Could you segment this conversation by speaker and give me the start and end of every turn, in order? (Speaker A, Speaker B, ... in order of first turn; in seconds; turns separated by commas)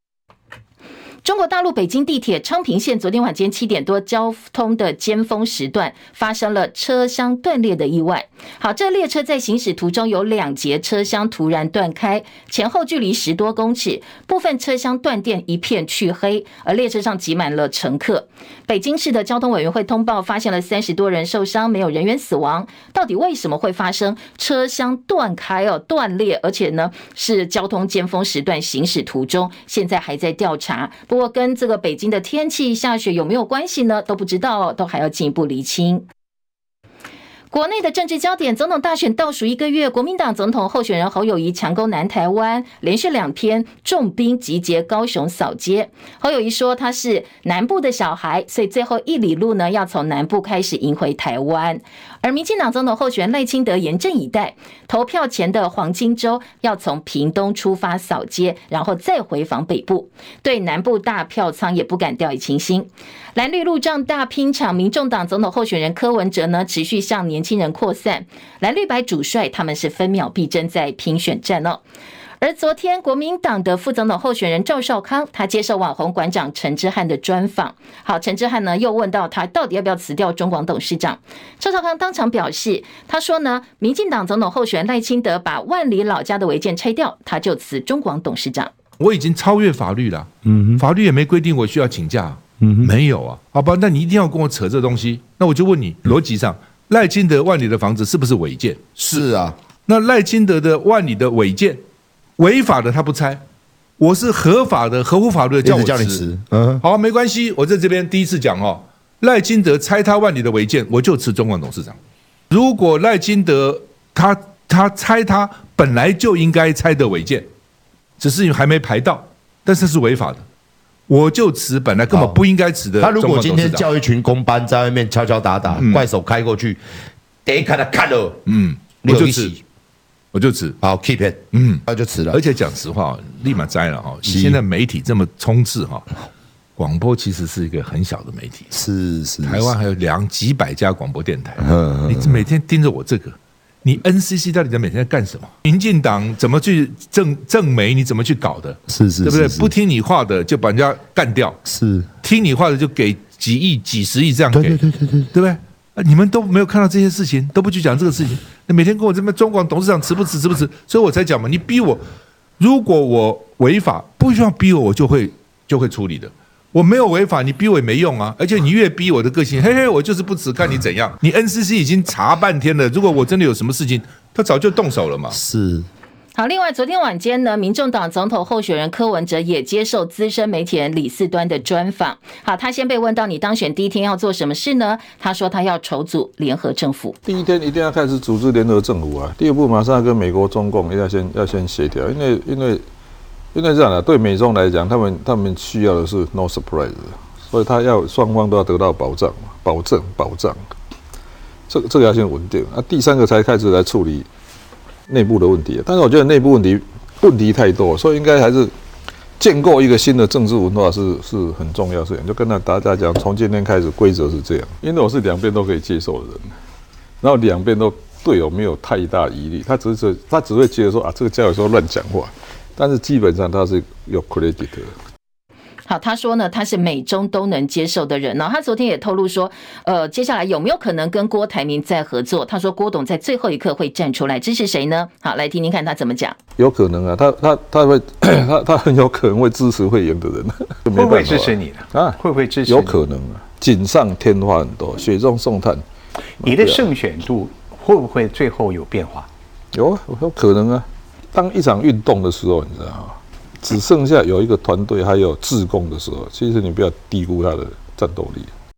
Speaker A: 1.2-36.0, Speaker A: 37.5-71.8, Speaker A: 72.4-88.7, Speaker B: 89.0-99.3, Speaker C: 90.5-90.8, Speaker C: 92.6-92.9, Speaker C: 99.0-99.5, Speaker B: 99.9-101.8, Speaker B: 102.4-103.4, Speaker B: 104.0-106.2, Speaker C: 105.6-106.8, Speaker B: 106.8-112.0, Speaker B: 112.5-117.5, Speaker B: 118.2-120.4, Speaker B: 121.1-123.9, Speaker C: 122.1-122.4, Speaker C: 123.0-126.8, Speaker B: 125.7-126.0, Speaker C: 127.5-128.4, Speaker B: 128.5-129.5, Speaker C: 129.0-129.6, Speaker B: 130.3-130.8, Speaker C: 130.8-132.4, Speaker B: 131.5-136.0, Speaker C: 134.2-134.6, Speaker B: 136.8-138.7, Speaker C: 138.7-139.7, Speaker B: 139.4-151.6, Speaker C: 141.6-142.4, Speaker C: 148.9-149.7, Speaker C: 151.6-152.1, Speaker B: 152.2-162.0, Speaker C: 154.5-155.3, Speaker B: 162.6-175.3, Speaker C: 175.3-175.9, Speaker A: 176.3-187.2, Speaker D: 187.2-192.8, Speaker D: 193.5-200.7, Speaker D: 201.7-204.3, Speaker D: 205.1-208.7, Speaker D: 209.4-216.6, Speaker D: 217.2-224.9, Speaker A: 225.9-236.3, Speaker D: 236.6-245.8, Speaker E: 240.9-243.0, Speaker D: 246.4-246.9, Speaker E: 246.4-249.3, Speaker D: 249.7-258.5